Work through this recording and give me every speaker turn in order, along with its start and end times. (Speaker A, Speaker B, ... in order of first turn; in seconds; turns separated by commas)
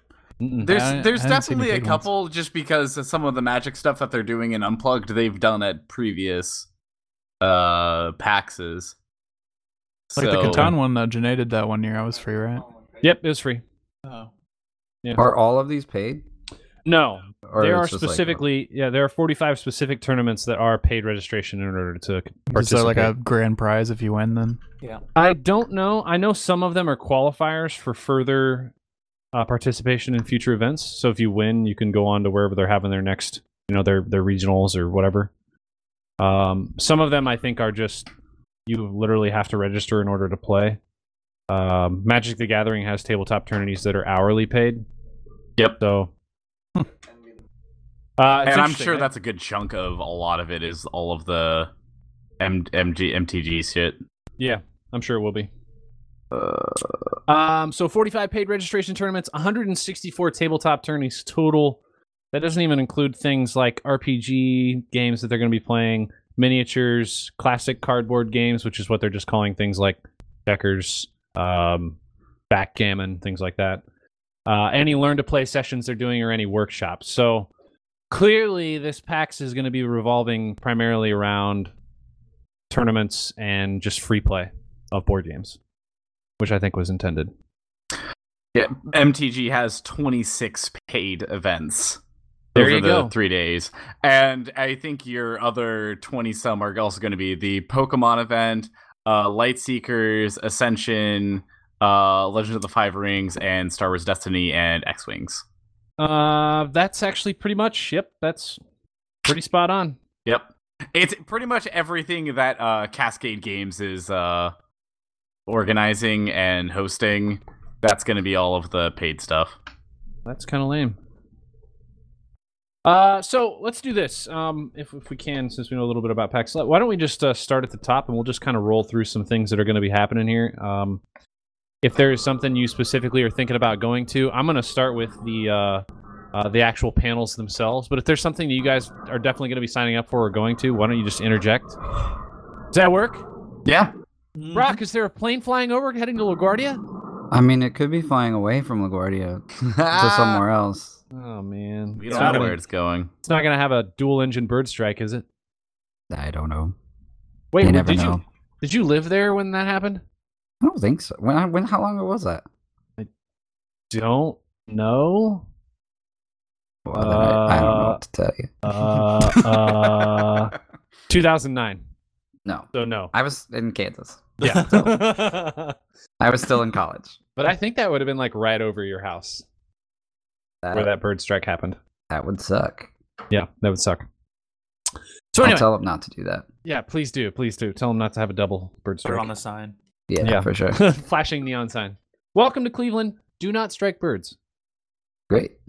Speaker A: 0.4-0.8, Speaker B: 0.6-2.1, Speaker C: 0.6-6.7, Speaker C: 7.4-8.9, Speaker C: 10.1-10.7, Speaker B: 10.2-12.7, Speaker A: 10.4-10.8, Speaker A: 13.0-13.6, Speaker D: 14.1-14.3, Speaker E: 15.2-16.2, Speaker A: 16.9-23.1, Speaker E: 17.4-18.4, Speaker B: 22.5-24.6, Speaker A: 25.2-28.7, Speaker A: 29.3-35.3, Speaker A: 36.2-38.1, Speaker A: 38.7-40.8, Speaker A: 41.5-44.9, Speaker A: 45.8-46.1, Speaker A: 48.2-49.1, Speaker C: 48.5-51.7, Speaker C: 52.4-54.0, Speaker A: 54.4-55.5, Speaker C: 56.3-57.0, Speaker A: 57.3-61.8, Speaker A: 62.3-72.0, Speaker A: 72.5-73.8, Speaker A: 74.5-77.5, Speaker A: 78.1-81.7, Speaker A: 82.7-85.6, Speaker A: 86.4-87.3, Speaker C: 88.5-92.0, Speaker C: 92.5-105.4, Speaker A: 92.5-93.1, Speaker A: 106.0-108.6, Speaker A: 109.2-110.0, Speaker C: 110.3-114.5, Speaker C: 115.5-119.6, Speaker A: 120.3-121.0, Speaker A: 122.8-131.0, Speaker A: 131.8-141.8, Speaker A: 142.7-143.3, Speaker C: 143.7-143.9, Speaker D: 144.4-144.8, Speaker A: 144.5-146.8, Speaker E: 147.3-151.0, Speaker C: 149.8-150.4, Speaker A: 151.1-152.6, Speaker C: 152.0-153.1, Speaker D: 152.1-152.6, Speaker A: 153.2-155.2, Speaker E: 156.1-156.7, Speaker A: 157.5-160.0, Speaker E: 157.6-158.2, Speaker E: 160.6-162.4, Speaker A: 163.9-165.4, Speaker E: 166.8-168.7, Speaker A: 166.9-168.0, Speaker A: 168.6-170.5, Speaker E: 169.2-170.3, Speaker A: 171.1-171.8, Speaker E: 172.4-174.8, Speaker A: 172.7-173.1, Speaker A: 174.4-175.8, Speaker D: 174.4-174.9, Speaker E: 176.2-177.2, Speaker A: 177.4-179.4, Speaker E: 180.6-180.9, Speaker A: 180.7-181.8, Speaker E: 182.1-182.9, Speaker A: 183.3-184.1, Speaker A: 185.3-185.7, Speaker E: 185.4-186.5, Speaker A: 186.7-189.3, Speaker D: 189.0-189.8, Speaker E: 190.1-190.8, Speaker A: 190.2-194.4